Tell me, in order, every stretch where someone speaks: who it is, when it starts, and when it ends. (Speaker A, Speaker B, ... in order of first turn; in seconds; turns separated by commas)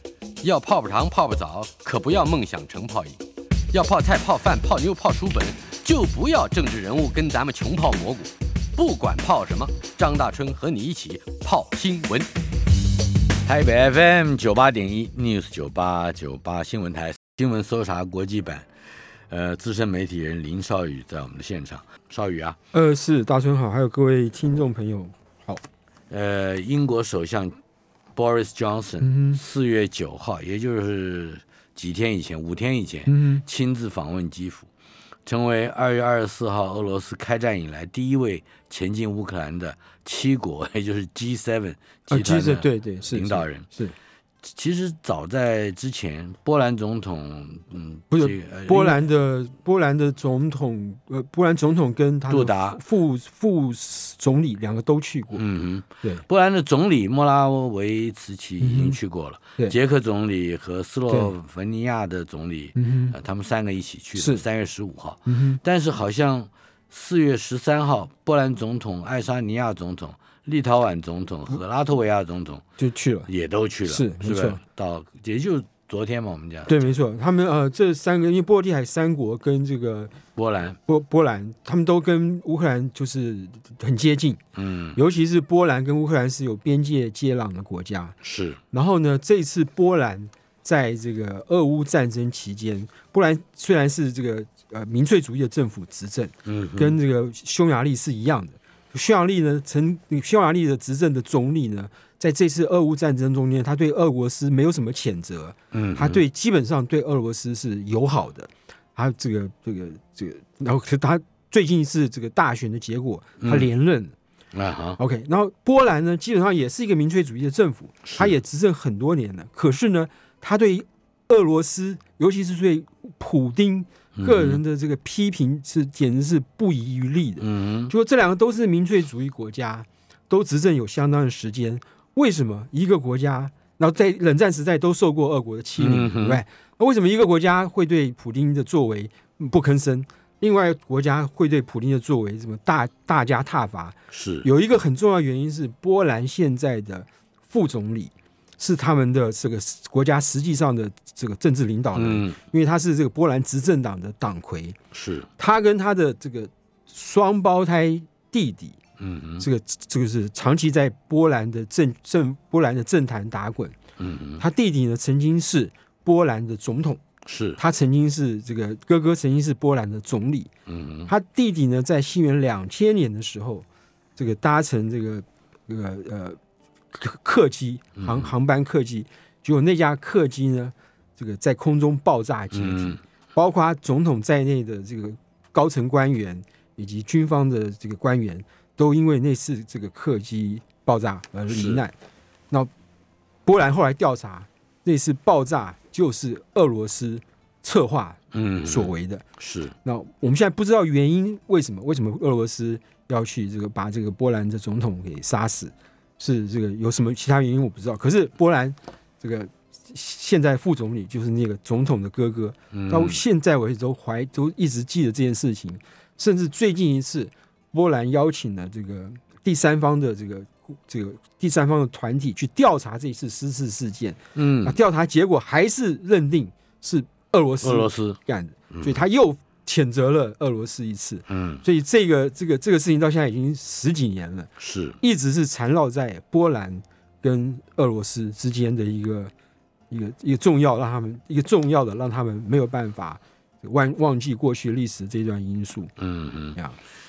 Speaker A: 0.4-3.2, Speaker A: 3.7-12.3, Speaker B: 13.4-18.7, Speaker B: 19.3-22.6, Speaker C: 22.7-25.6, Speaker B: 26.1-27.6, Speaker B: 28.1-34.7, Speaker C: 29.0-29.4, Speaker C: 33.1-33.5, Speaker B: 35.3-43.7, Speaker C: 42.1-44.0, Speaker B: 44.4-49.0, Speaker C: 48.1-55.4, Speaker B: 52.3-52.8, Speaker B: 55.4-72.6, Speaker C: 58.6-59.0, Speaker C: 62.8-63.2, Speaker C: 64.2-64.4, Speaker C: 65.3-65.6, Speaker C: 72.8-73.3, Speaker B: 73.3-76.9, Speaker C: 73.9-74.6, Speaker C: 76.7-80.1, Speaker B: 80.4-80.8, Speaker C: 80.9-84.4, Speaker B: 84.5-85.0, Speaker C: 85.0-88.2, Speaker B: 88.2-88.6, Speaker C: 88.7-114.2, Speaker B: 96.5-97.0, Speaker B: 105.7-106.2, Speaker B: 113.4-113.7, Speaker B: 114.5-115.0, Speaker C: 115.0-154.8, Speaker B: 118.0-118.3, Speaker B: 124.2-124.6, Speaker B: 127.4-127.9, Speaker B: 135.8-136.4, Speaker B: 144.1-144.5, Speaker B: 151.9-152.4, Speaker B: 154.9-155.3, Speaker C: 155.4-158.8, Speaker B: 159.0-159.5, Speaker C: 159.4-163.8, Speaker B: 164.0-164.4, Speaker C: 164.4-167.0, Speaker B: 167.2-167.6, Speaker C: 167.6-170.5, Speaker B: 170.7-171.1, Speaker C: 171.1-173.7, Speaker C: 174.2-176.4, Speaker C: 176.9-191.9, Speaker B: 178.0-178.3, Speaker B: 182.5-183.0, Speaker B: 191.5-191.8, Speaker C: 193.5-199.2, Speaker B: 198.3-199.8, Speaker C: 199.8-239.3, Speaker B: 212.7-213.2, Speaker B: 224.3-224.8, Speaker B: 227.6-228.2, Speaker B: 228.7-229.0, Speaker B: 231.3-231.6, Speaker B: 234.6-235.0, Speaker C: 239.9-245.9, Speaker B: 246.0-246.6